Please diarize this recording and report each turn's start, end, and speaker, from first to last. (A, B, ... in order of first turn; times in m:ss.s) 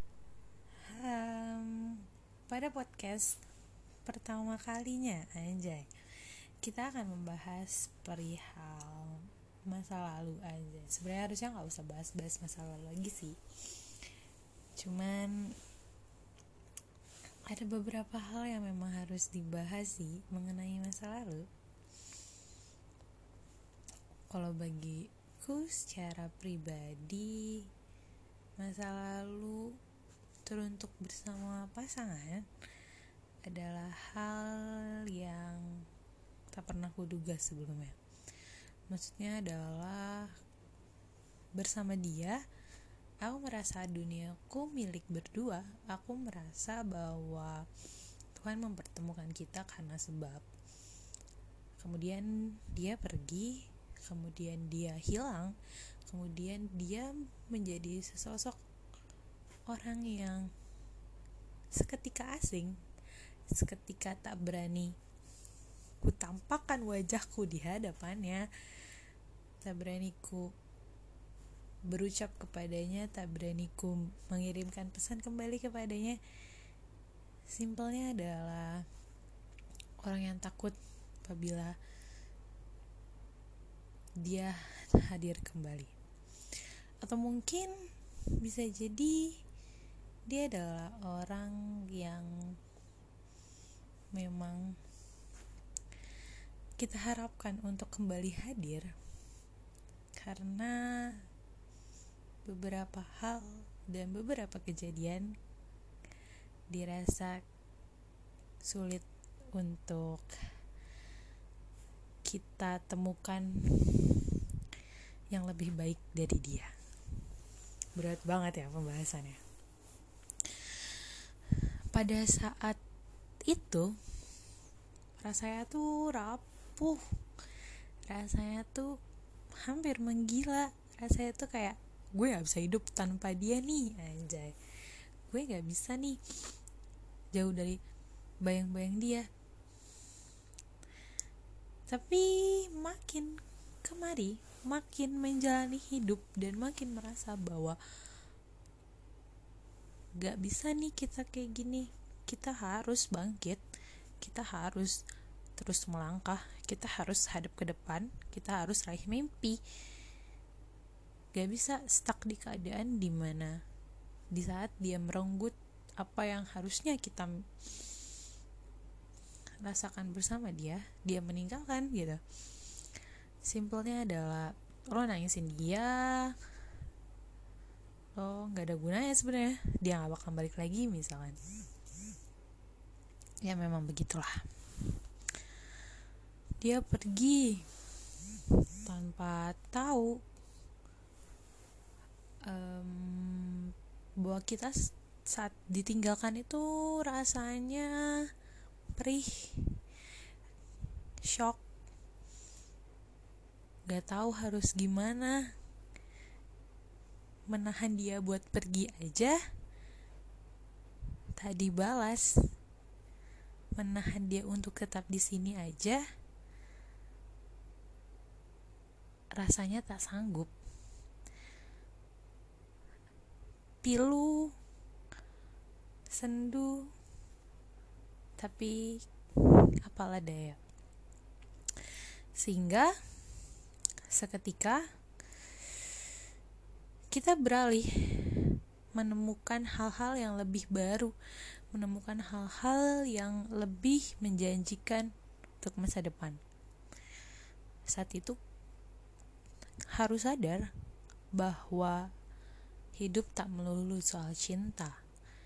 0:00.9-0:03.4 A
0:04.0-0:05.9 A
0:06.6-0:13.4 A
0:14.8-0:15.6 A
0:17.5-0:21.5 A
0:24.3-0:27.7 A
0:28.6-0:29.7 A
0:30.4-0:32.5 A
0:33.4-0:35.8 A
0:36.5-0:38.0 A
0:38.9-0:40.3 A
0:41.6-0:42.4 A
0:43.2-0:47.6 A
0:48.3-0:50.4 A
0:51.8-0:55.5 A
0:56.0-0:58.6 A
0:59.7-1:00.5 A
1:01.7-1:02.8 A
1:03.5-1:04.9 A
1:06.0-1:08.9 A
1:09.6-1:10.5 A
1:11.9-1:16.2 A
1:17.5-1:18.8 A
1:20.0-1:21.8 A
1:24.2-1:25.9 A
1:27.0-1:27.7 A
1:28.4-1:29.4 A
1:30.3-1:32.6 A
1:34.1-1:34.8 A
1:36.8-1:38.9 A
1:40.2-1:41.2 A
1:42.4-1:45.3 A
1:46.7-1:47.4 A
1:48.6-1:50.4 A
1:52.2-1:54.4 A
1:55.3-1:56.7 A
1:58.0-1:59.4 A
2:00.5-2:01.1 A
2:01.9-2:02.8 A
2:03.4-2:04.0 A
2:05.2-2:07.1 A
2:08.1-2:09.0 A
2:09.6-2:14.6 A
2:15.3-2:16.2 A
2:17.3-2:17.8 A
2:18.4-2:19.3 A
2:21.9-2:27.8 A
2:30.2-2:33.6 A
2:34.2-2:35.0 A
2:35.6-2:39.6 A
2:41.3-2:43.6 A
2:44.3-2:47.3 A
2:49.6-2:52.2 A
2:53.4-2:56.4 A
2:58.2-3:01.4 A
3:03.4-3:04.4 A
3:06.6-3:07.7 A
3:08.5-3:10.2 A
3:12.4-3:18.3 A
3:19.0-3:19.8 A
3:21.2-3:21.6 A
3:23.9-3:25.5 A
3:27.5-3:29.4 A
3:31.3-3:32.4 A
3:33.8-3:36.0 A
3:39.4-3:40.5 A
3:43.8-3:44.5 A
3:46.1-3:46.9 A
3:48.4-3:50.6 A
3:52.4-3:52.9 A
3:54.1-3:54.8 A
3:57.1-4:01.1 A
4:01.7-4:05.1 A
4:05.6-4:06.4 A
4:07.9-4:08.4 A
4:09.9-4:10.7 A
4:11.3-4:12.1 A
4:12.9-4:15.0 A